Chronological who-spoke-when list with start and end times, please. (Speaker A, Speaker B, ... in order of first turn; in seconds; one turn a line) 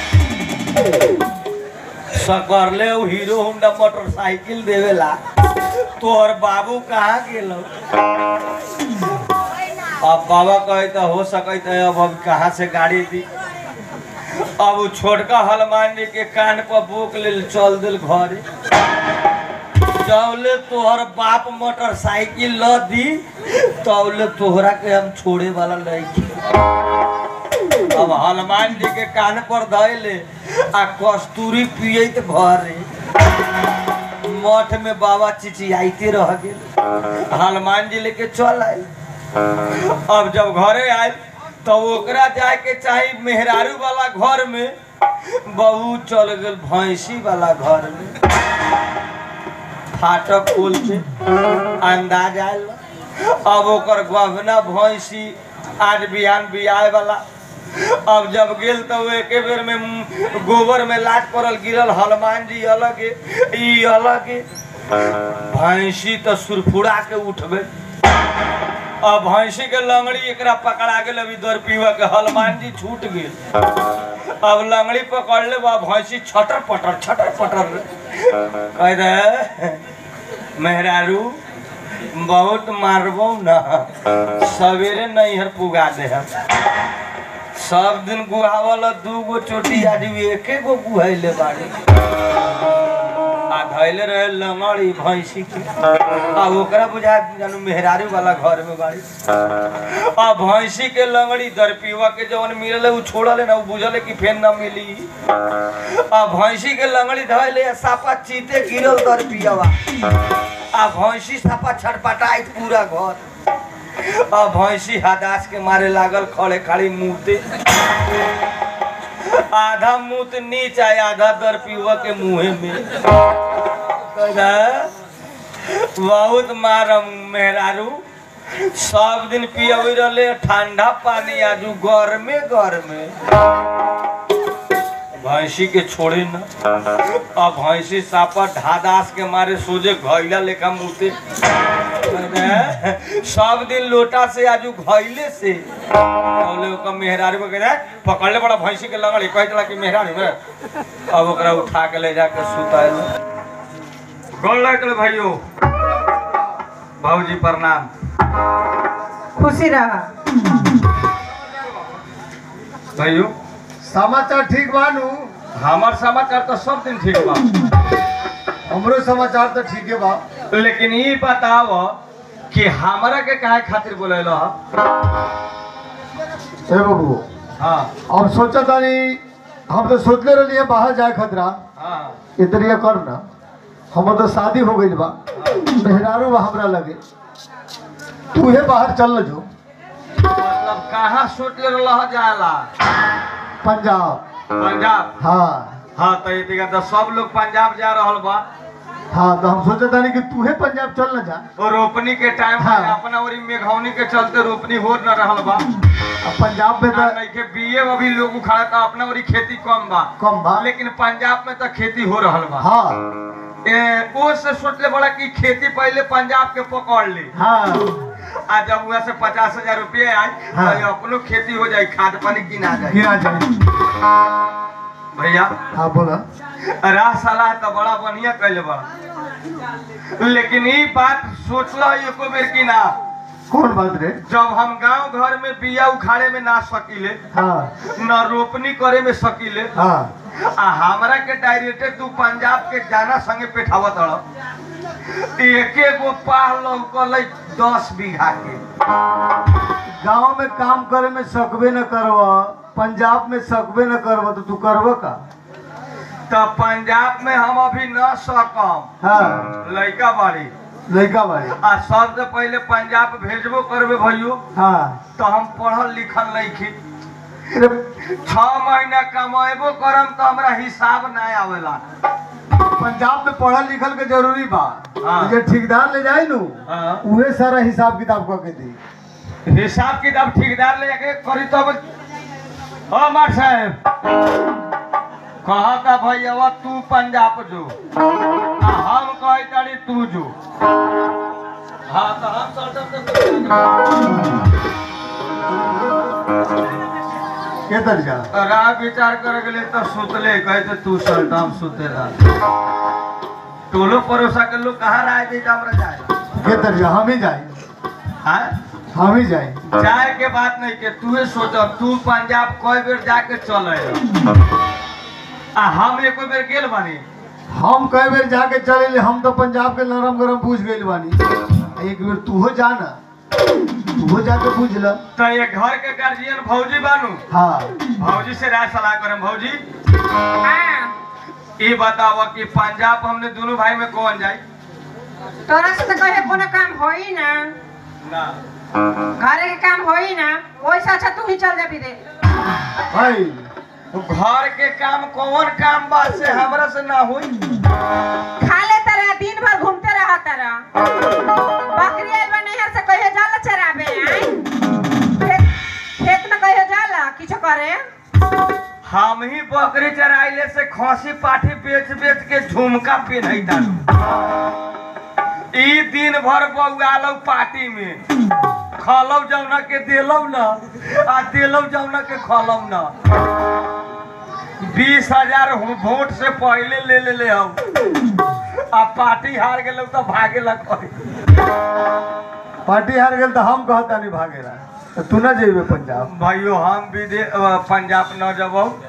Speaker A: 2.1-5.2
Speaker A: 6.0-7.7
Speaker A: 10.0-13.2
Speaker A: 14.6-18.4
Speaker A: 19.9-26.4
Speaker A: 27.9-32.9
Speaker A: 34.2-36.6
Speaker A: 37.3-38.9
Speaker A: 39.8-44.7
Speaker A: 45.3-48.1
Speaker A: 49.9-51.0
Speaker A: 51.8-57.2
Speaker A: 57.7-64.4
Speaker A: 65.0-67.7
Speaker A: 69.0-73.3
Speaker A: 74.4-79.8
Speaker A: 80.6-81.4
Speaker A: 82.1-86.3
Speaker A: 87.5-91.7
Speaker A: 93.5-99.0
Speaker A: 99.8-105.1
Speaker A: 105.8-109.8
Speaker A: 110.7-113.2
Speaker A: 114.0-117.5
Speaker A: 119.2-122.9
Speaker A: 124.2-124.9
Speaker A: 125.6-128.0
Speaker A: 128.5-133.1
Speaker A: 135.2-141.2
Speaker A: 142.0-145.6
Speaker A: 146.4-150.3
Speaker A: 151.1-153.1
Speaker A: 154.4-155.4
Speaker A: 157.0-157.9
Speaker B: 159.4-160.1
Speaker A: 163.0-163.3
Speaker C: 163.8-165.3
Speaker A: 165.6-167.5
Speaker C: 168.7-170.2
Speaker A: 170.5-172.0
Speaker A: 172.5-174.6
Speaker C: 176.7-177.3
Speaker A: 177.6-177.9
Speaker C: 178.1-181.6
Speaker A: 181.8-182.2
Speaker C: 182.4-183.2
Speaker C: 183.9-187.0
Speaker A: 185.3-185.6
Speaker C: 188.3-189.5
Speaker A: 190.3-192.7
Speaker C: 193.6-194.2
Speaker A: 194.6-195.1
Speaker C: 195.2-195.8
Speaker A: 196.0-198.4
Speaker C: 199.1-201.4
Speaker A: 201.6-205.7
Speaker C: 202.6-203.0
Speaker C: 206.2-207.2
Speaker A: 206.9-212.7
Speaker C: 210.2-210.6
Speaker C: 212.6-213.0
Speaker A: 213.7-217.3
Speaker C: 217.3-218.0
Speaker A: 218.5-223.1
Speaker C: 220.5-220.9
Speaker C: 222.9-223.5
Speaker A: 225.1-225.6
Speaker C: 225.7-226.2
Speaker A: 226.8-228.9
Speaker A: 230.2-232.9
Speaker C: 233.5-234.2
Speaker A: 234.3-237.2
Speaker C: 237.3-237.7
Speaker A: 237.8-239.7
Speaker C: 239.8-240.1
Speaker A: 240.4-244.2
Speaker A: 245.1-248.6
Speaker C: 250.0-255.2
Speaker A: 256.3-258.9
Speaker C: 259.0-259.5
Speaker A: 259.6-260.5
Speaker C: 260.9-261.6
Speaker A: 261.6-264.4
Speaker C: 264.5-265.0
Speaker A: 265.2-266.8
Speaker C: 267.5-267.8
Speaker A: 268.0-271.8
Speaker C: 272.8-278.8
Speaker A: 275.0-275.4
Speaker A: 276.7-277.0
Speaker A: 279.5-281.8
Speaker A: 282.9-283.8
Speaker A: 285.4-287.8
Speaker A: 288.6-290.3
Speaker A: 291.9-293.7
Speaker C: 297.7-298.3
Speaker A: 298.3-302.1
Speaker A: 303.7-306.2
Speaker C: 306.4-307.6
Speaker A: 308.2-308.6
Speaker C: 308.9-309.6
Speaker A: 309.6-314.0
Speaker A: 315.6-317.0
Speaker C: 317.5-321.2
Speaker C: 321.8-323.0
Speaker C: 324.0-325.0
Speaker A: 325.2-327.2
Speaker C: 327.3-327.8
Speaker A: 327.9-329.6
Speaker B: 330.4-330.9
Speaker A: 331.6-334.4
Speaker B: 335.5-337.5
Speaker A: 338.0-338.4
Speaker B: 339.2-342.0
Speaker C: 342.9-343.5
Speaker A: 343.9-347.3
Speaker B: 348.4-350.6
Speaker B: 351.7-354.3
Speaker B: 355.2-357.8
Speaker A: 358.9-363.8
Speaker A: 365.5-368.0
Speaker A: 368.8-372.9
Speaker A: 374.6-377.6
Speaker A: 378.7-381.0
Speaker C: 382.6-386.1
Speaker A: 386.1-388.8